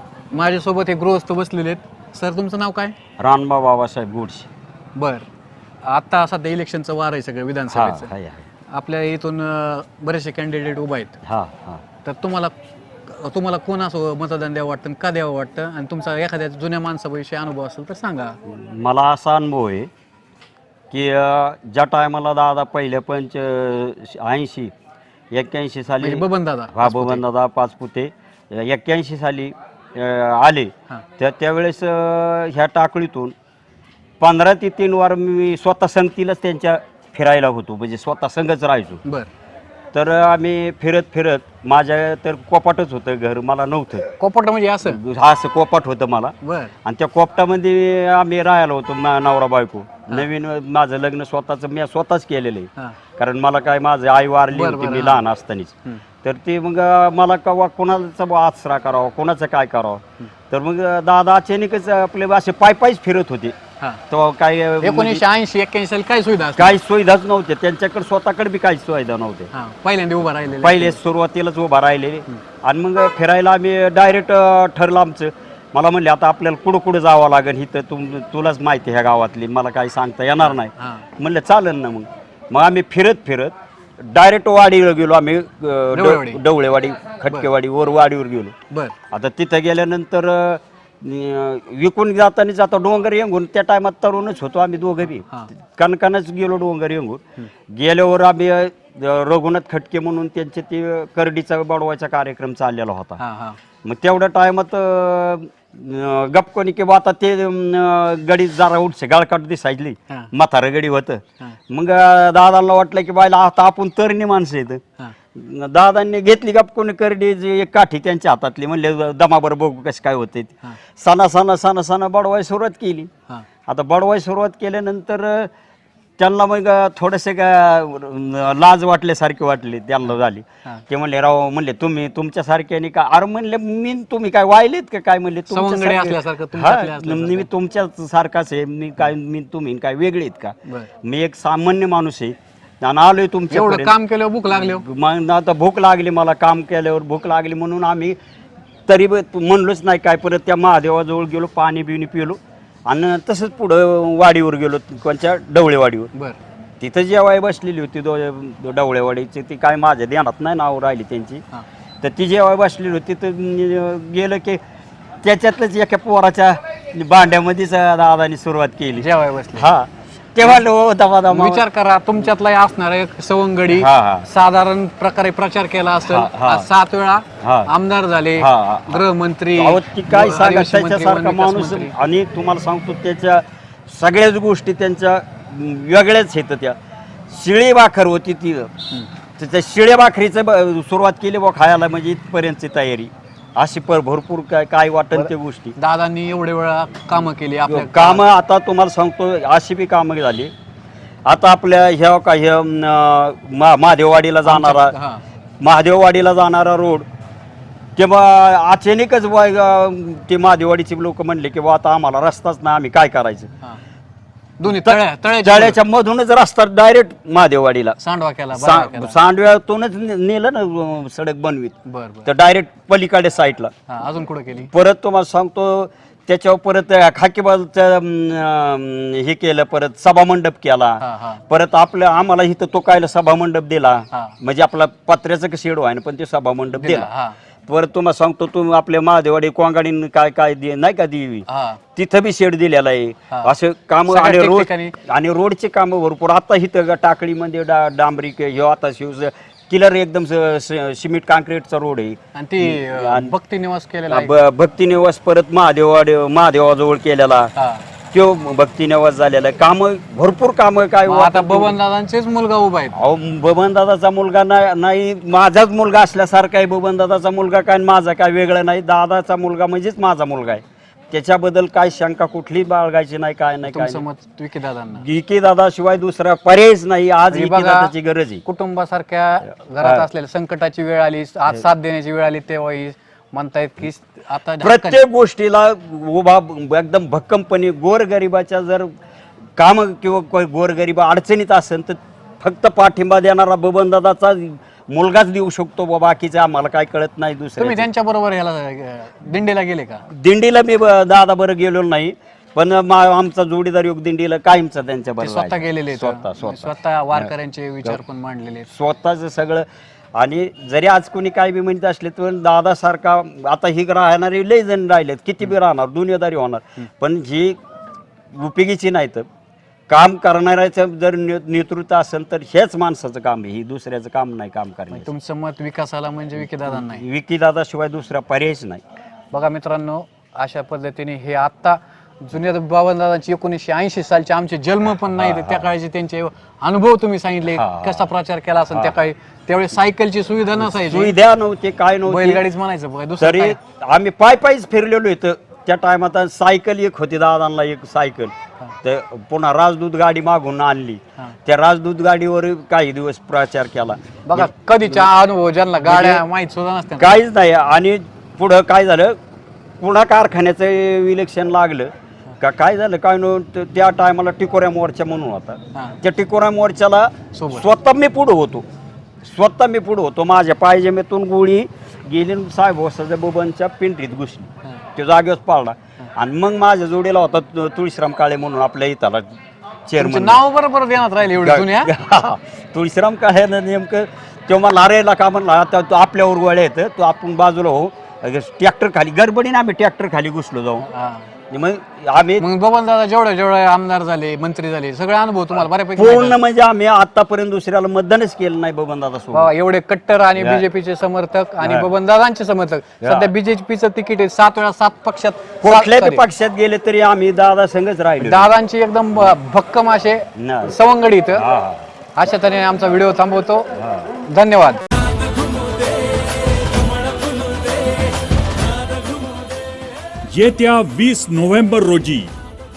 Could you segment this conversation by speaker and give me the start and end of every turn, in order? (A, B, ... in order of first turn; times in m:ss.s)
0:00.3-0:02.9 A
0:03.2-0:04.5 B
0:05.0-0:05.3 A
0:05.8-0:08.1 A
0:07.7-0:08.5 B
0:08.7-0:11.2 A
0:11.2-0:11.8 B
0:12.0-0:12.5 A
0:13.1-0:18.4 A
0:18.4-0:19.9 B
0:20.9-0:24.7 B
0:25.3-0:33.3 B
0:26.0-0:27.2 A
0:34.2-0:39.0 B
0:39.9-0:44.1 B
0:44.2-0:45.0 A
0:44.8-0:46.3 B
0:46.4-0:46.7 A
0:46.8-1:03.5 B
0:54.5-0:55.2 A
1:04.1-1:05.2 B
1:04.8-1:06.8 A
1:06.6-1:09.5 B
1:09.5-1:11.0 A
1:10.6-1:28.5 B
1:20.8-1:21.0 A
1:26.0-1:26.4 A
1:28.7-1:29.0 A
1:29.1-1:43.2 B
1:43.2-1:43.6 A
1:43.8-1:54.8 B
1:55.3-2:03.1 B
2:03.7-2:05.5 B
2:06.2-2:24.0 B
2:15.5-2:17.5 A
2:23.5-2:24.8 A
2:24.5-2:28.2 B
2:28.9-2:36.1 B
2:36.8-2:41.4 B
2:42.0-2:44.6 B
2:45.2-2:51.6 B
2:49.0-2:49.7 A
2:51.3-3:01.9 A
2:53.7-2:54.3 B
2:56.1-2:56.7 B
2:57.4-2:57.7 B
2:58.4-3:06.8 B
3:07.3-3:08.7 B
3:09.4-3:15.8 B
3:15.2-3:18.2 A
3:17.7-3:20.5 B
3:21.3-3:25.0 B
3:24.5-3:25.2 A
3:25.6-3:27.1 B
3:28.0-3:33.5 B
3:34.6-3:35.8 A
3:34.6-3:38.0 B
3:38.0-3:39.1 A
3:38.5-3:43.7 B
3:41.9-3:42.3 A
3:43.9-3:44.7 A
3:44.7-3:57.1 B
3:51.0-3:51.4 A
3:54.1-3:54.4 A
3:56.8-3:57.4 A
3:57.7-4:13.3 B
4:01.5-4:01.8 A
4:04.1-4:05.0 A
4:12.3-4:14.4 A
4:14.1-4:17.5 B
4:17.6-4:17.9 A
4:18.1-4:21.8 B
4:21.1-4:23.0 A
4:22.9-4:34.0 B
4:33.7-4:35.0 A
4:35.0-4:38.4 B
4:37.3-4:37.9 A
4:38.4-4:45.0 A
4:39.8-4:40.1 B
4:44.6-4:48.9 B
4:49.6-4:57.9 B
4:57.6-5:00.0 A
5:00.1-5:07.3 B
5:05.2-5:08.7 A
5:08.7-5:17.6 B
5:18.3-5:19.3 B
5:19.9-5:25.1 B
5:24.9-5:27.0 A
5:26.7-5:28.8 B
5:29.3-5:41.2 A
5:35.1-5:35.7 B
5:37.5-5:38.1 B
5:40.6-5:42.5 B
5:42.1-5:43.6 A
5:43.2-5:55.1 B
5:54.3-5:57.2 A
5:55.8-5:56.2 B
5:57.0-5:59.2 B
5:59.8-6:08.6 B
6:07.3-6:07.7 A
6:09.2-6:19.4 B
6:19.9-6:20.4 B
6:20.0-6:21.9 A
6:21.3-6:30.8 B
6:30.8-6:31.3 A
6:31.5-6:32.5 B
6:32.4-6:36.4 A
6:36.0-6:39.5 B
6:39.3-6:46.2 A
6:40.4-6:40.6 B
6:41.6-6:41.9 B
6:43.0-6:43.3 B
6:45.6-6:48.5 B
6:48.2-6:51.4 A
6:50.4-6:50.8 B
6:51.4-6:51.9 B
6:52.2-6:53.7 A
6:53.8-6:54.1 B
6:54.3-6:54.8 A
7:00.3-7:02.3 C